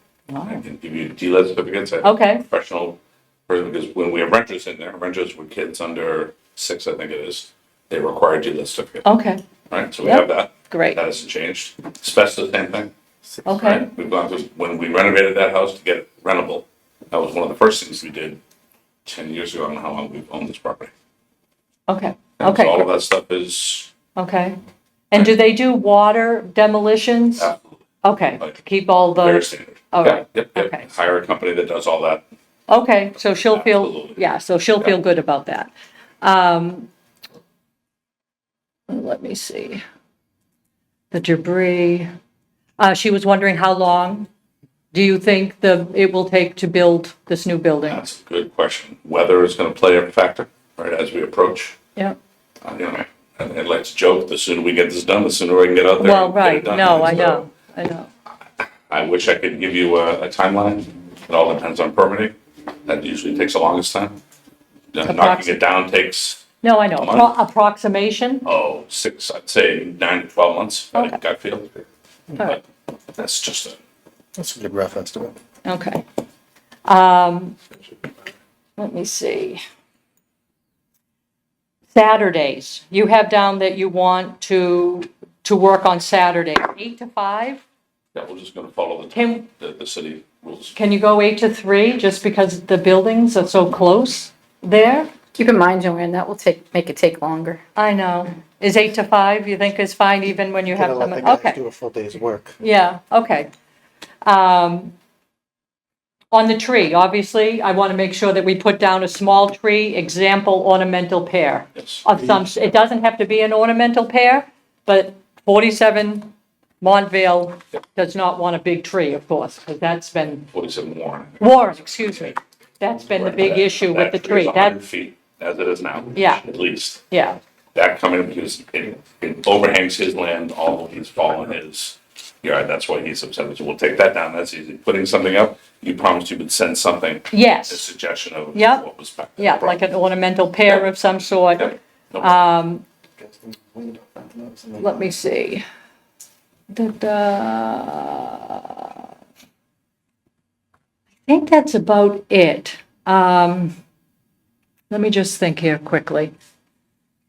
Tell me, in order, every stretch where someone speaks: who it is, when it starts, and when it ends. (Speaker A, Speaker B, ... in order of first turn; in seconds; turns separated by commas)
Speaker A: 0.3-0.6, Speaker B: 0.5-9.1, Speaker A: 2.0-2.4, Speaker A: 9.0-9.4, Speaker B: 9.7-12.9, Speaker A: 10.0-11.0, Speaker A: 13.5-13.9, Speaker B: 13.6-18.4, Speaker B: 19.1-20.9, Speaker A: 21.9-22.9, Speaker B: 22.4-23.9, Speaker A: 24.2-24.6, Speaker A: 25.1-27.5, Speaker B: 27.4-27.7, Speaker A: 28.0-30.9, Speaker B: 29.2-32.2, Speaker A: 32.7-35.7, Speaker B: 33.5-34.2, Speaker A: 36.2-36.9, Speaker A: 38.9-39.8, Speaker A: 41.1-42.1, Speaker A: 42.8-44.3, Speaker A: 44.9-48.0, Speaker B: 47.9-51.8, Speaker B: 52.6-57.4, Speaker A: 56.0-58.1, Speaker B: 58.9-62.4, Speaker B: 62.9-64.2, Speaker B: 64.9-66.5, Speaker A: 65.0-65.6, Speaker A: 66.6-68.5, Speaker B: 67.0-67.3, Speaker B: 68.5-71.8, Speaker B: 73.2-73.8, Speaker C: 74.4-75.3, Speaker A: 75.7-76.0, Speaker A: 76.9-77.6, Speaker A: 78.8-79.6, Speaker A: 81.9-87.6, Speaker B: 88.1-90.8, Speaker A: 89.1-89.4, Speaker A: 90.8-95.1, Speaker D: 95.3-97.6, Speaker A: 97.8-101.6, Speaker C: 100.8-102.5, Speaker A: 102.6-103.5, Speaker A: 104.2-104.9, Speaker A: 106.3-120.5, Speaker B: 111.8-112.0, Speaker B: 120.5-121.6, Speaker A: 121.4-124.8, Speaker B: 123.2-127.0, Speaker A: 126.2-126.5, Speaker A: 127.1-127.4, Speaker B: 127.7-139.8, Speaker A: 137.3-137.9, Speaker A: 138.5-138.8, Speaker A: 139.4-142.8, Speaker B: 141.6-142.3, Speaker C: 143.8-144.8, Speaker A: 144.8-145.6, Speaker A: 146.7-149.0, Speaker A: 151.3-153.7, Speaker A: 154.9-156.3